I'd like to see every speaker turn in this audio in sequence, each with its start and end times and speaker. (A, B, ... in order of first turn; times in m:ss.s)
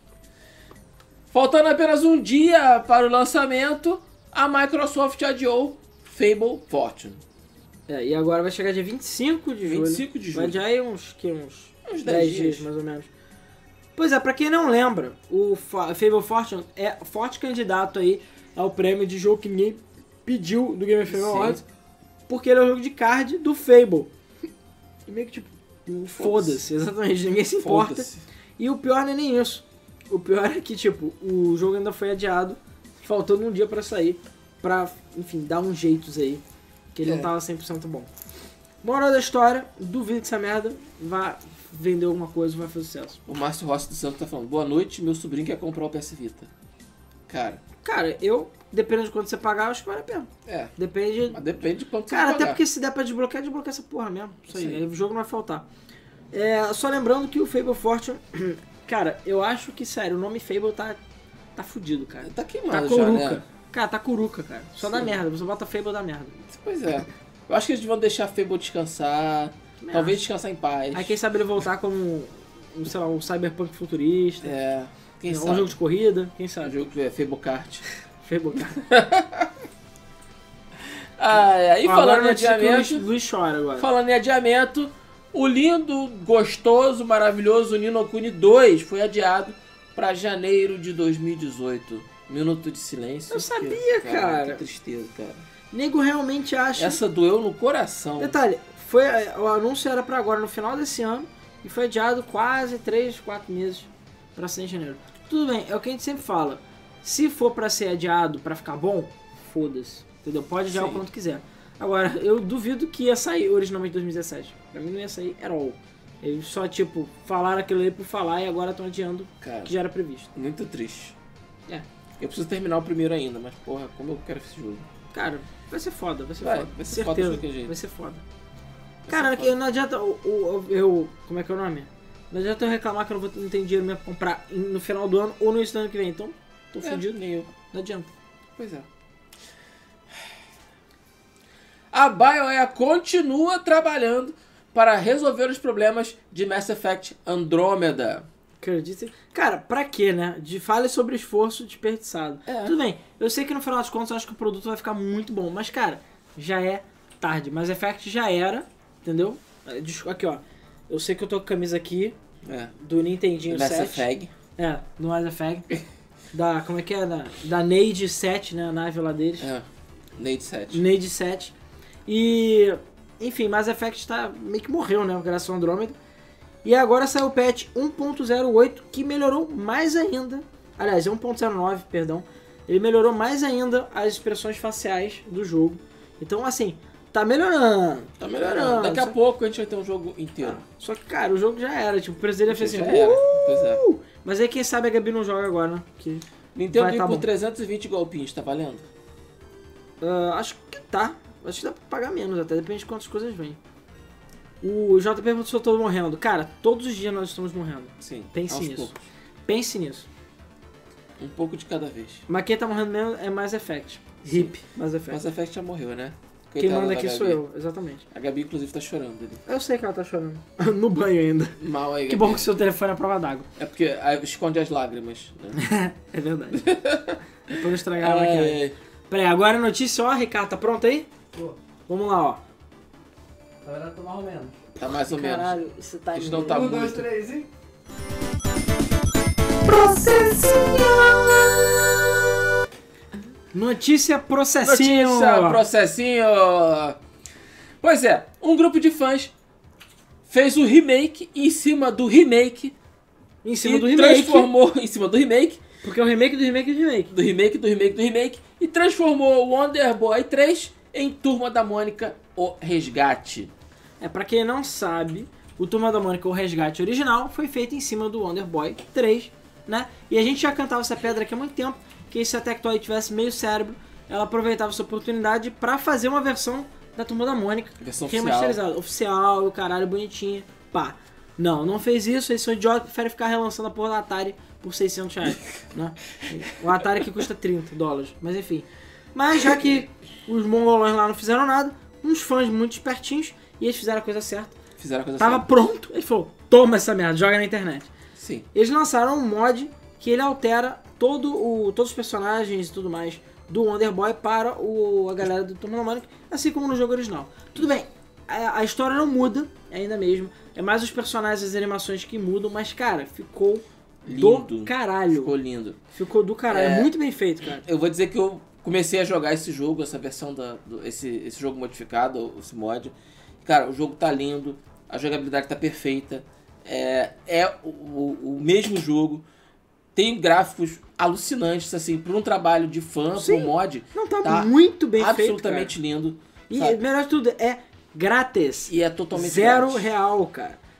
0:01.3-0:07.2 A
0:07.9-0:13.1 B
0:09.6-0:10.6 A
0:11.9-0:12.7 A
0:14.0-0:21.6 B
0:21.1-0:21.6 A
0:22.3-0:24.1 B
0:25.1-0:36.4 B
0:26.2-0:26.6 A
0:27.6-0:28.2 A
0:36.9-0:38.1 B
0:37.0-0:37.3 A
0:38.8-0:43.2 B
0:43.3-0:46.5 A
0:47.3-0:47.6 A
0:47.8-0:51.4 B
0:50.5-0:50.7 A
0:51.3-0:52.6 A
0:52.1-0:55.7 B
0:54.5-0:54.8 A
0:56.3-1:01.0 B
1:01.6-1:06.4 B
1:02.2-1:03.4 A
1:04.8-1:05.2 A
1:06.5-1:11.2 A
1:09.8-1:10.2 B
1:10.9-1:14.5 B
1:14.4-1:15.8 A
1:15.3-1:16.8 B
1:16.6-1:17.8 A
1:18.2-1:18.8 B
1:18.8-1:19.5 A
1:21.2-1:23.0 A
1:21.8-1:23.9 B
1:23.8-1:35.4 A
1:33.3-1:34.6 B
1:35.7-1:37.0 B
1:36.8-1:38.4 A
1:38.2-2:00.3 B
1:50.7-1:51.0 A
1:59.4-1:59.7 A
2:00.3-2:01.2 A
2:02.2-2:04.9 A
2:05.1-2:08.2 B
2:06.4-2:07.7 A
2:09.1-2:09.5 A
2:09.1-2:18.1 B
2:16.8-2:17.5 A
2:18.6-2:18.9 A
2:21.9-2:28.3 A
2:28.6-2:42.2 B
2:32.5-2:32.8 A
2:42.4-2:42.7 A
2:42.8-2:45.7 B
2:43.5-2:44.3 A
2:46.3-2:49.5 B
2:49.4-2:50.8 A
2:50.7-2:51.5 B
2:52.1-2:56.0 B
2:56.6-3:09.2 B
3:08.2-3:10.6 A
3:10.4-3:17.3 B
3:12.5-3:13.8 A
3:16.6-3:18.9 A
3:20.0-3:23.6 B
3:24.6-3:28.9 B
3:28.0-3:29.0 A
3:29.5-3:30.1 B
3:31.2-3:32.2 A
3:32.3-3:35.2 B
3:34.3-3:34.5 A
3:35.1-3:37.4 A
3:36.6-3:38.1 B
3:38.1-3:39.4 A
3:39.5-3:43.5 B
3:41.6-3:42.5 A
3:43.6-3:45.6 A
3:45.6-3:46.7 B
3:46.5-3:48.8 A
3:47.5-3:51.1 B
3:51.9-3:52.4 B
3:53.6-3:54.6 C
3:54.8-3:55.6 A
3:55.1-3:56.6 B
3:56.1-3:57.1 A
3:56.4-3:57.5 C
3:59.7-4:01.2 B
4:03.5-4:05.6 B
4:04.6-4:07.0 A
4:07.8-4:09.3 A
4:10.3-4:12.8 A
4:13.4-4:14.5 B
4:13.6-4:15.6 A
4:15.8-4:17.1 B
4:17.1-4:23.5 A
4:24.0-4:54.6 B
4:37.8-4:38.6 A
4:54.8-4:55.5 A
4:55.2-4:57.9 B
4:58.2-4:58.5 A
4:58.5-5:15.3 B
5:14.0-5:15.8 A
5:15.9-5:17.6 B
5:16.5-5:16.9 A
5:17.5-5:22.9 A
5:23.4-5:29.2 A
5:30.0-5:36.8 A
5:33.1-5:35.7 B
5:36.5-5:40.6 B
5:38.7-5:39.9 A